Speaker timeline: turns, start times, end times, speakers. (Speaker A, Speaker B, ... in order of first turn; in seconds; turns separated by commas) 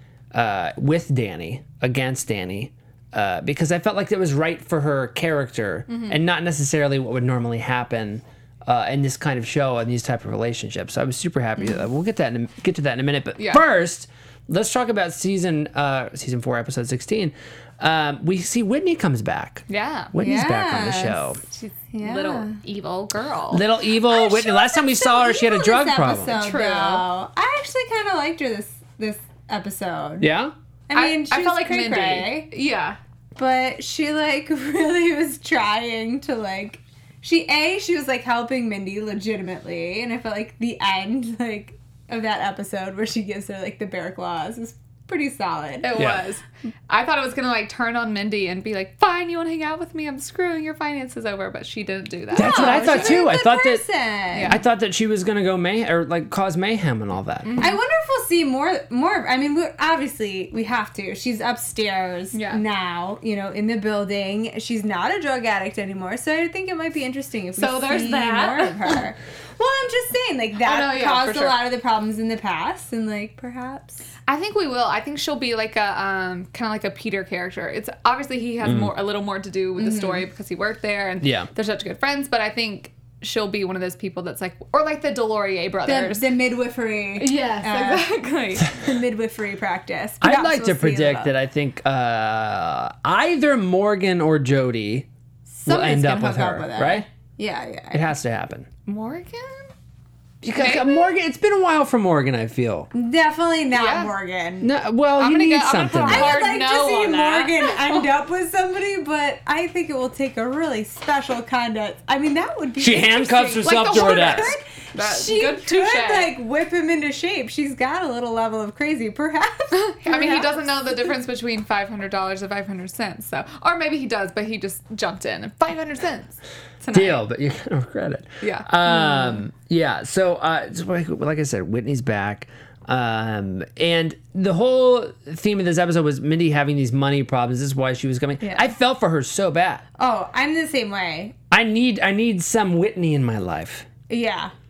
Speaker A: 0.3-21.4, Speaker B: 5.9-6.2, Speaker B: 13.4-13.6, Speaker B: 19.7-20.1, Speaker C: 20.2-21.3, Speaker B: 21.6-23.6, Speaker C: 21.9-22.6, Speaker A: 23.5-26.3, Speaker C: 24.0-30.3, Speaker B: 26.3-27.0, Speaker A: 30.2-30.5, Speaker C: 30.9-32.5, Speaker B: 30.9-33.0, Speaker C: 33.4-45.9, Speaker B: 45.8-53.2, Speaker A: 46.0-46.2, Speaker A: 52.3-53.8, Speaker C: 52.4-54.5, Speaker B: 54.3-54.6, Speaker A: 54.5-57.5, Speaker B: 57.4-57.8, Speaker C: 57.6-74.0, Speaker B: 62.3-62.6, Speaker B: 67.6-69.0, Speaker B: 70.6-71.6, Speaker B: 74.3-86.3, Speaker A: 78.6-78.9, Speaker C: 79.8-80.3, Speaker A: 81.2-81.5, Speaker C: 85.8-88.1, Speaker B: 87.2-88.8, Speaker C: 88.7-91.3, Speaker A: 90.2-95.1, Speaker C: 95.5-98.1, Speaker A: 95.7-97.0, Speaker A: 97.9-98.7, Speaker B: 98.9-99.7, Speaker A: 100.4-102.9, Speaker B: 100.5-101.2, Speaker C: 102.9-104.7, Speaker B: 103.7-104.1, Speaker A: 104.6-106.4, Speaker B: 105.2-108.1, Speaker C: 106.0-121.1, Speaker A: 112.8-114.5, Speaker B: 113.6-116.3, Speaker B: 119.7-127.2, Speaker A: 126.9-139.8, Speaker B: 128.4-128.7, Speaker C: 128.9-129.4, Speaker C: 138.4-138.7, Speaker C: 140.0-141.3, Speaker A: 141.5-143.9, Speaker C: 144.1-144.5